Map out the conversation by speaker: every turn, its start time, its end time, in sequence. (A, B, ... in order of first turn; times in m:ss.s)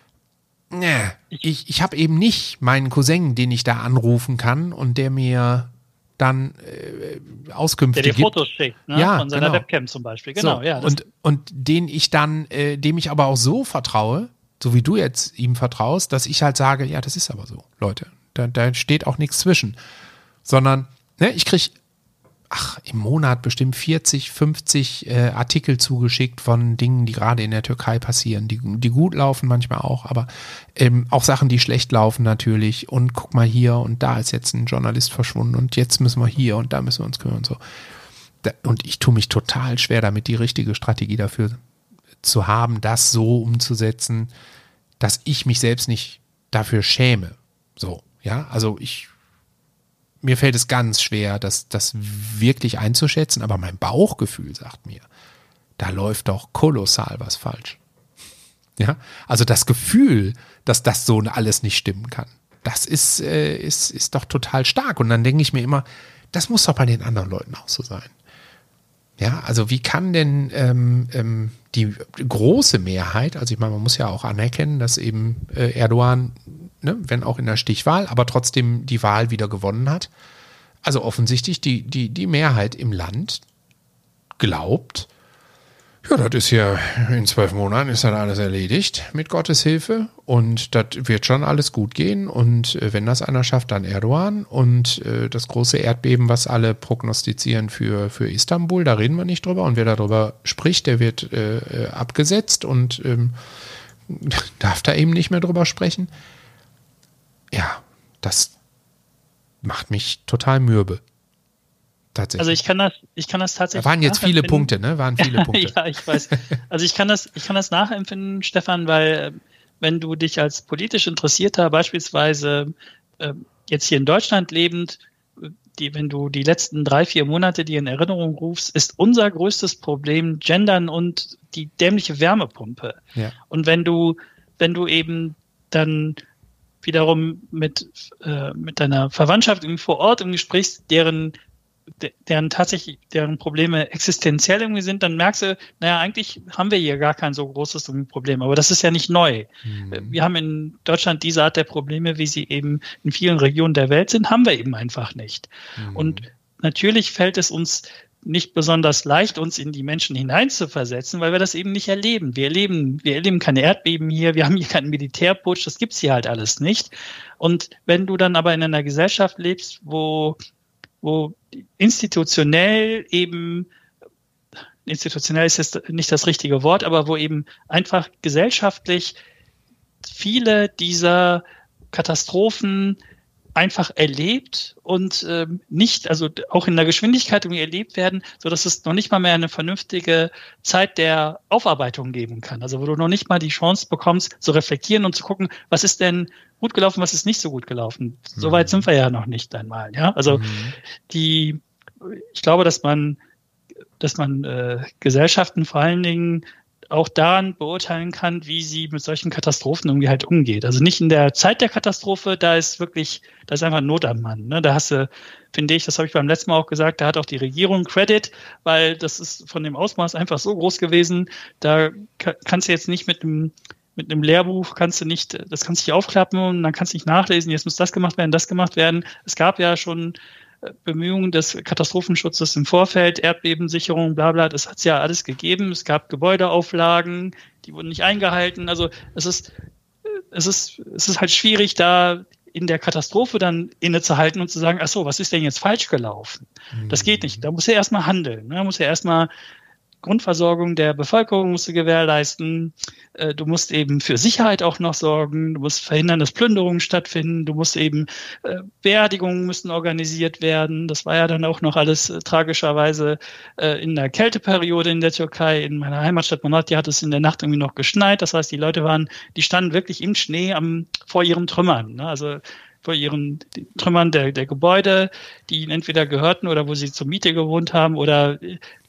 0:00.7-0:08.4 A
0:07.9-0:11.0 B
0:08.9-0:09.6 A
0:10.4-0:19.8 A
0:20.4-0:21.7 A
0:22.5-0:37.6 A
0:38.4-0:41.6 A
0:42.2-0:44.3 A
0:45.0-0:49.1 A
0:50.2-0:55.0 A
0:55.8-0:57.8 A
0:58.8-1:08.1 A
1:09.2-1:20.1 A
1:20.8-1:23.4 A
1:24.4-1:25.1 A
1:26.0-1:43.4 A
1:44.1-1:46.1 A
1:47.5-1:48.5 A
1:49.6-1:51.0 A
1:52.1-1:52.6 A
1:52.4-2:16.2 B
1:53.7-1:55.8 A
2:16.8-2:21.3 B
2:22.0-2:50.4 B
2:29.6-2:30.1 A
2:35.8-2:36.2 A
2:51.0-2:53.7 B
2:54.8-2:59.1 B
3:00.0-3:03.0 B
3:03.5-3:20.4 B
3:18.4-3:18.8 A
3:20.3-3:20.8 A
3:21.1-3:23.2 B
3:24.0-3:59.5 B
4:00.0-4:09.3 B
4:06.7-4:07.4 A
4:10.0-4:38.6 B